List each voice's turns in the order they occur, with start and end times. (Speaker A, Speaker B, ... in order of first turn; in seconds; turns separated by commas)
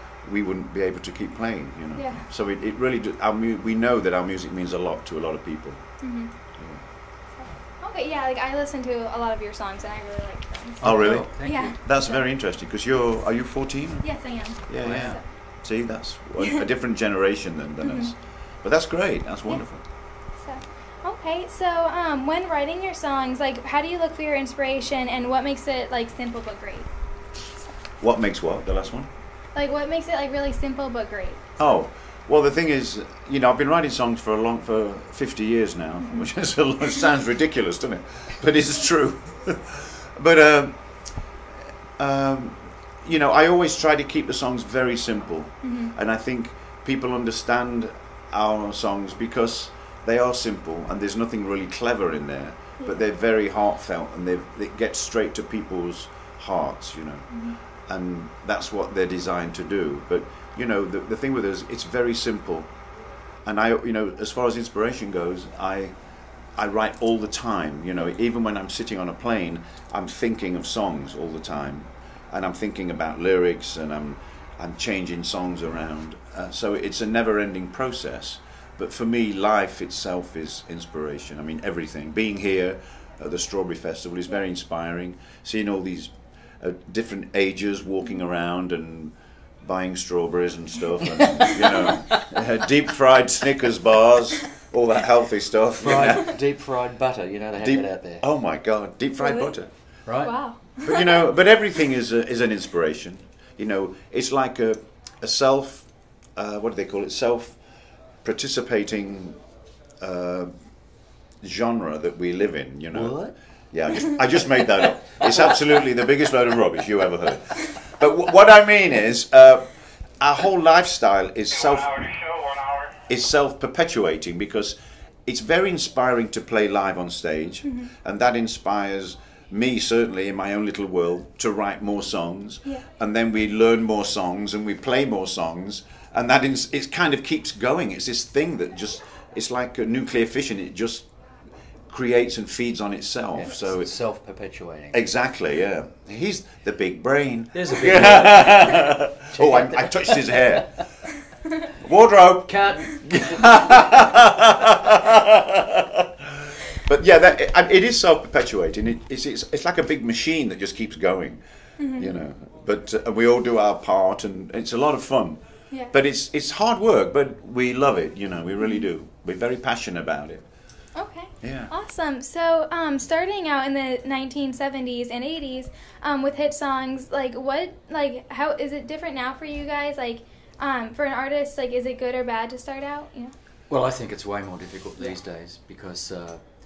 Speaker A: 0.2-6.0, Speaker B: 1.9-2.2, Speaker B: 6.0-6.3, Speaker B: 7.3-10.8, Speaker C: 10.8-11.8, Speaker A: 10.8-19.8, Speaker B: 11.4-12.2, Speaker B: 14.0-15.2, Speaker C: 14.8-15.2, Speaker B: 17.8-18.1, Speaker B: 20.3-26.9, Speaker A: 28.0-29.1, Speaker B: 29.5-31.4, Speaker A: 31.6-41.0, Speaker B: 36.0-36.3, Speaker A: 42.0-62.7, Speaker B: 45.6-45.9, Speaker B: 57.3-57.6, Speaker A: 63.4-65.9, Speaker A: 66.5-96.3, Speaker C: 91.3-91.9, Speaker C: 95.8-98.2, Speaker A: 97.6-99.7, Speaker B: 99.2-99.5, Speaker C: 100.0-100.3, Speaker B: 100.2-101.2, Speaker A: 100.8-107.6, Speaker A: 108.2-109.4, Speaker A: 110.0-110.5, Speaker A: 111.4-122.3, Speaker C: 112.9-113.3, Speaker A: 123.1-141.1, Speaker A: 141.9-143.9, Speaker C: 143.3-145.0, Speaker A: 144.9-150.8, Speaker C: 147.5-150.8, Speaker A: 151.8-161.4, Speaker C: 152.5-153.6, Speaker B: 161.8-162.1, Speaker A: 161.9-170.4, Speaker B: 168.6-168.8, Speaker B: 170.9-183.3, Speaker A: 171.4-171.7, Speaker C: 183.7-186.4